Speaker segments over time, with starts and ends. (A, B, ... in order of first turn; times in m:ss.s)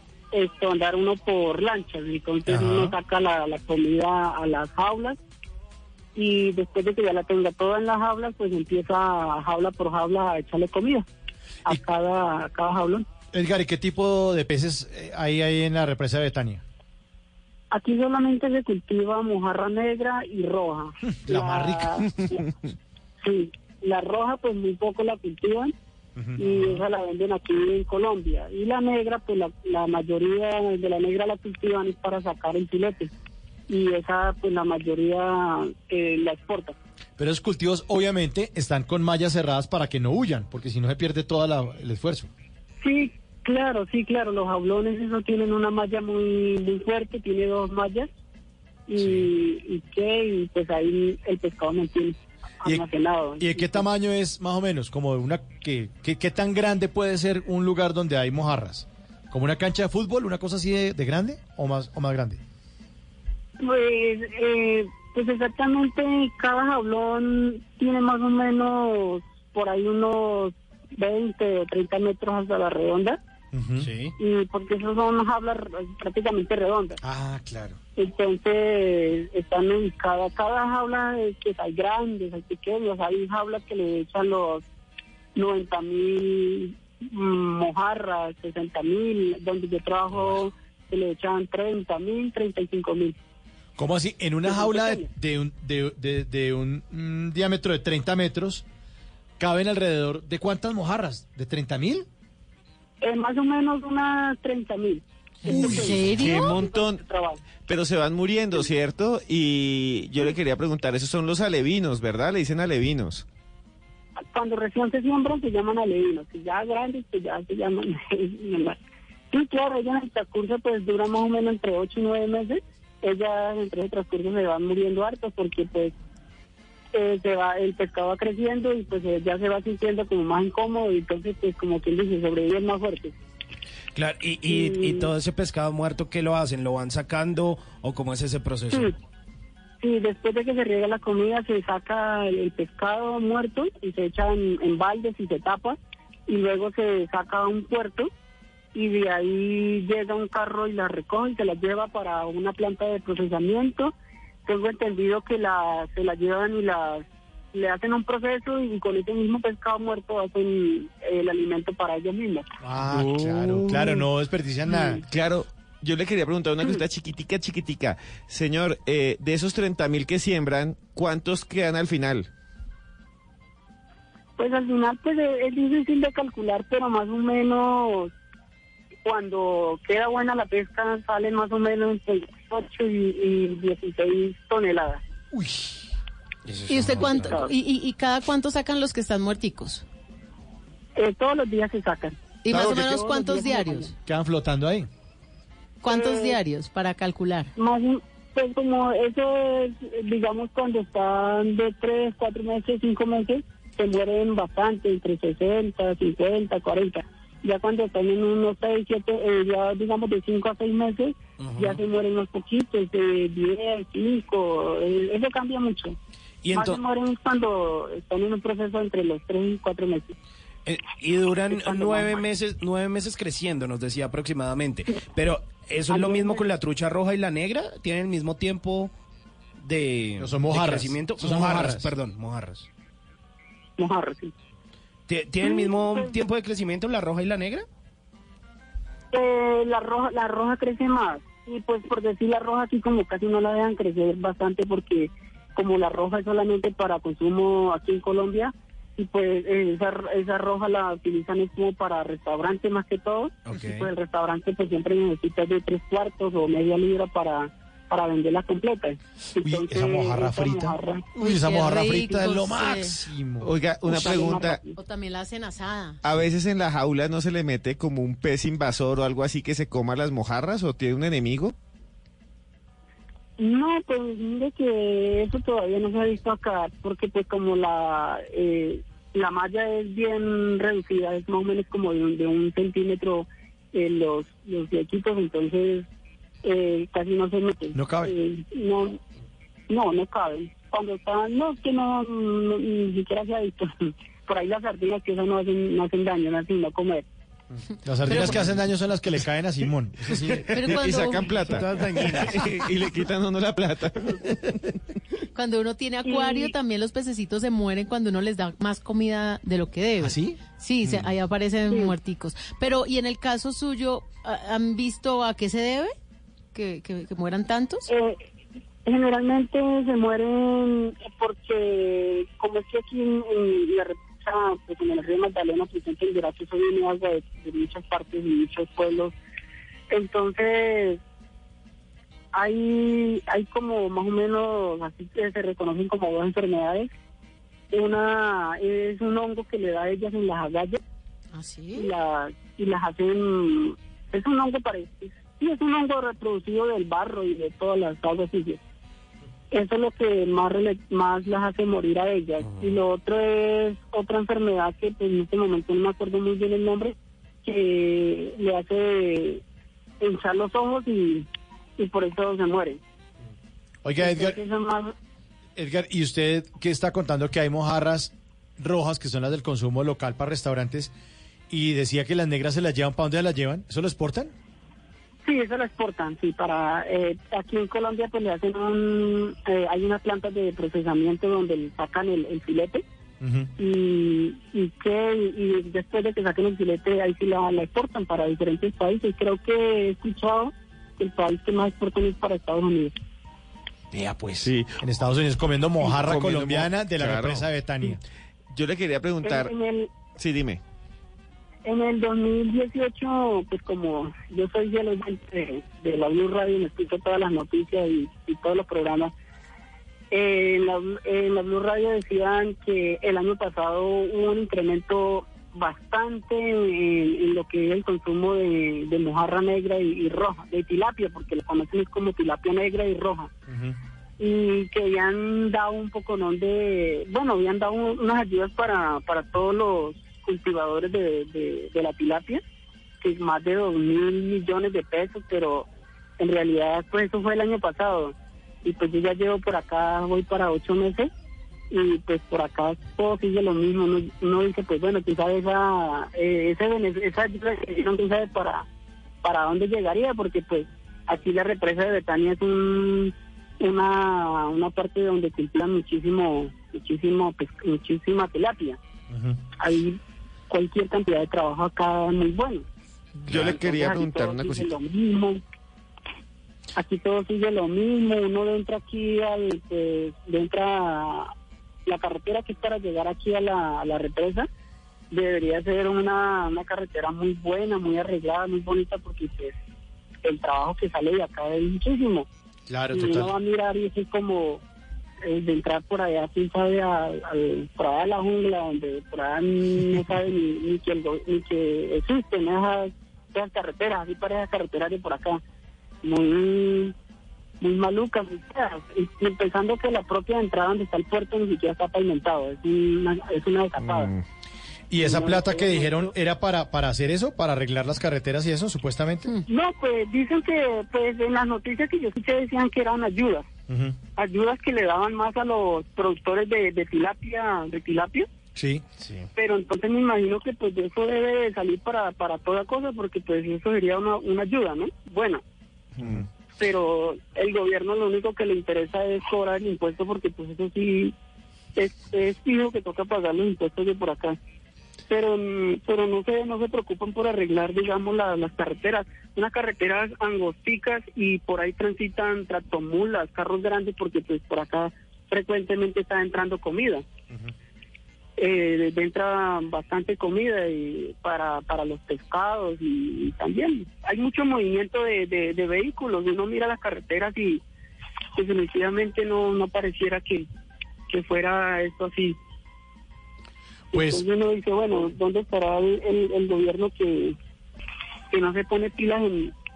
0:00.3-0:05.2 A
0:02.5-0:02.9 B
0:02.6-0:02.9 C
0:06.1-0:11.1 A
0:11.6-0:13.0 A
0:13.3-0:16.6 B
0:17.7-0:22.4 A
0:21.0-0:22.1 B
0:23.2-0:25.7 A
0:26.2-0:26.8 B
0:26.4-0:33.1 A
0:33.7-0:36.8 A
0:37.2-0:42.3 B
0:42.8-0:48.1 A
0:48.9-0:53.8 A
0:49.0-0:49.2 B
0:53.4-1:02.4 B
1:03.6-1:13.2 A
1:13.5-1:13.9 B
1:13.8-1:14.1 C
1:14.2-1:17.0 A
1:17.0-1:17.7 B
1:18.0-1:24.6 A
1:25.3-1:33.2 A
1:33.8-1:38.6 B
1:34.4-1:35.0 A
1:39.4-1:42.1 B
1:43.0-1:47.4 A
1:45.4-1:46.6 D
1:45.5-1:46.0 B
1:46.1-1:47.0 E
1:47.6-1:53.2 E
1:54.3-1:58.8 A
1:59.3-2:05.9 A
2:06.9-2:13.1 A
2:13.9-2:18.9 C
2:14.4-2:15.1 A
2:19.8-2:28.1 A
2:28.7-2:33.9 A
2:34.4-2:42.4 A
2:42.6-2:45.0 B
2:44.7-2:45.0 A
2:45.1-2:52.3 E
2:54.4-2:58.1 A
2:59.0-3:05.0 A
3:05.3-3:05.8 B
3:06.4-3:07.4 C
3:06.7-3:09.8 D
3:06.9-3:07.5 A
3:11.0-3:13.9 A
3:12.4-3:13.9 D
3:12.5-3:13.0 B
3:14.0-3:14.9 B
3:15.8-3:17.5 D
3:15.9-3:16.4 A
3:17.6-3:36.0 A
3:31.4-3:31.8 C
3:36.4-3:36.8 C
3:36.5-3:40.1 A
3:40.6-3:48.9 C
3:41.5-3:42.2 A
3:45.9-3:46.4 A
3:49.6-3:52.7 C
3:50.2-3:51.9 B
3:53.8-3:54.3 A
3:55.1-3:57.6 C
3:55.4-3:56.1 A
3:59.1-4:21.1 A
4:13.4-4:13.9 C
4:19.4-4:23.5 B
4:21.2-4:22.9 D
4:23.4-4:24.6 E
4:23.8-4:24.8 A
4:24.8-4:26.0 D
4:26.0-4:31.5 E
4:33.4-4:45.9 A
4:46.4-4:49.0 A
4:47.7-4:48.1 B
4:49.7-4:57.0 A
4:57.8-5:00.7 B
4:58.0-4:58.5 D
5:00.5-5:01.6 D
5:00.6-5:04.2 E
5:01.4-5:02.7 C
5:05.3-5:15.9 D
5:06.0-5:06.5 A
5:10.0-5:10.4 B
5:11.7-5:11.9 A
5:16.5-5:17.9 D
5:17.9-5:18.3 A
5:18.8-5:29.1 A
5:29.9-5:31.0 A
5:32.3-5:36.9 A
5:37.7-5:40.8 A
5:41.3-5:41.9 D
5:41.8-5:48.6 A
5:49.5-5:59.4 A
5:52.4-5:52.8 C
6:00.0-6:02.8 A
6:03.8-6:04.4 B
6:04.0-6:04.9 A
6:05.6-6:10.9 B
6:11.5-6:14.3 B
6:15.2-6:22.8 A
6:23.2-6:23.5 B
6:23.6-6:32.9 A
6:34.4-6:34.7 E
6:34.8-6:38.0 B
6:35.9-6:37.5 E
6:38.5-6:39.5 E
6:39.2-6:39.9 A
6:40.1-6:40.6 E
6:41.6-6:49.1 A
6:50.1-7:03.3 A
7:03.5-7:03.8 B
7:04.2-7:12.4 A
7:13.0-7:15.7 A
7:16.2-7:21.1 A
7:21.7-7:28.6 A
7:29.2-7:38.8 A
7:39.1-7:39.4 B
7:39.6-7:40.0 A
7:40.5-7:42.6 A
7:43.3-7:44.7 E
7:43.3-7:45.4 A
7:46.8-7:51.3 A
7:51.8-7:54.5 A
7:55.1-7:59.6 A
8:00.2-8:02.3 A
8:02.7-8:03.3 B
8:02.9-8:04.6 A
8:05.2-8:15.4 A
8:16.0-8:16.9 A
8:17.6-8:24.1 A
8:23.8-8:24.2 E
8:24.9-8:29.3 B
8:25.0-8:26.1 A
8:29.5-8:33.5 A
8:33.7-8:34.0 B
8:34.2-8:38.3 A
8:38.5-8:39.2 B
8:39.4-8:45.4 A
8:46.0-8:46.3 B
8:46.6-8:51.1 A
8:51.8-8:54.4 A
8:55.1-9:07.0 A
9:08.4-9:17.6 A
9:18.3-9:20.5 A
9:21.1-9:22.4 A
9:23.9-9:24.2 B
9:23.9-9:27.4 A
9:28.3-9:29.5 A